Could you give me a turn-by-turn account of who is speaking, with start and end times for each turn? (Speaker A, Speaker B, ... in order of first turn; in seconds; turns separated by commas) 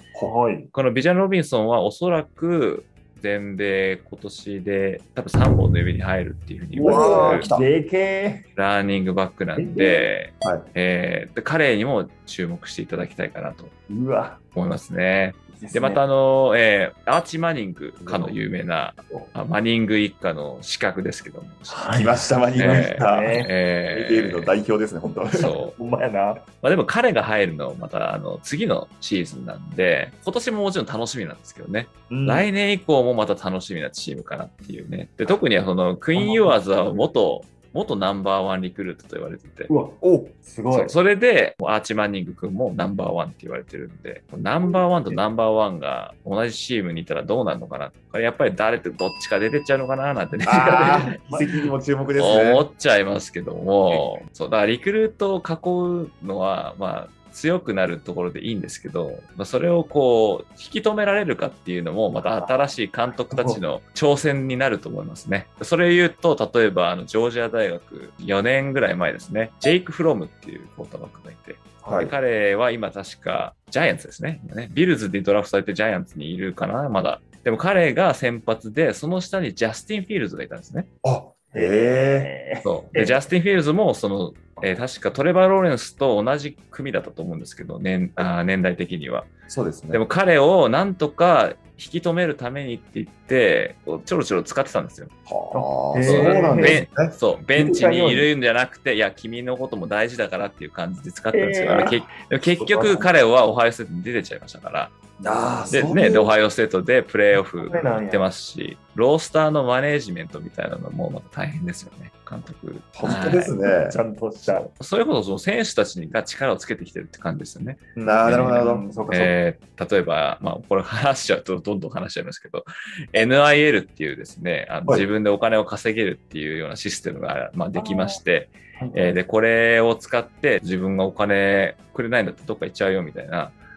Speaker A: 0.2-0.7, Speaker B: 0.7-7.5, Speaker A: 6.8-8.4, Speaker C: 6.8-7.7, Speaker B: 8.6-13.7, Speaker A: 9.6-10.1, Speaker A: 13.9-14.4, Speaker B: 14.5-24.6, Speaker A: 15.5-16.0, Speaker A: 18.0-18.4, Speaker A: 21.7-23.5, Speaker C: 21.9-23.3, Speaker C: 23.9-25.5, Speaker B: 25.3-25.8, Speaker A: 25.7-26.4, Speaker B: 26.6-39.7, Speaker A: 32.1-32.5, Speaker A: 36.1-37.1, Speaker A: 39.7-41.0, Speaker C: 40.0-40.3, Speaker B: 40.7-51.2, Speaker A: 44.6-45.2, Speaker C: 50.4-52.7, Speaker A: 50.5-51.5, Speaker B: 52.2-80.9, Speaker A: 62.2-62.7, Speaker A: 63.3-63.6, Speaker C: 71.9-72.1, Speaker C: 81.0-82.3, Speaker A: 81.5-83.3, Speaker B: 82.6-89.3, Speaker C: 89.5-90.0, Speaker B: 89.9-95.1, Speaker C: 95.2-97.2, Speaker A: 95.5-96.8, Speaker B: 96.0-104.9, Speaker A: 97.5-98.3, Speaker A: 101.3-103.1, Speaker C: 101.7-102.0, Speaker C: 105.2-106.3, Speaker A: 105.3-106.0, Speaker B: 105.7-113.5, Speaker A: 107.5-108.2, Speaker C: 112.9-114.0, Speaker A: 113.7-114.7, Speaker B: 114.4-133.6, Speaker A: 118.0-119.4, Speaker C: 118.0-118.9, Speaker A: 127.8-128.2, Speaker A: 128.8-129.2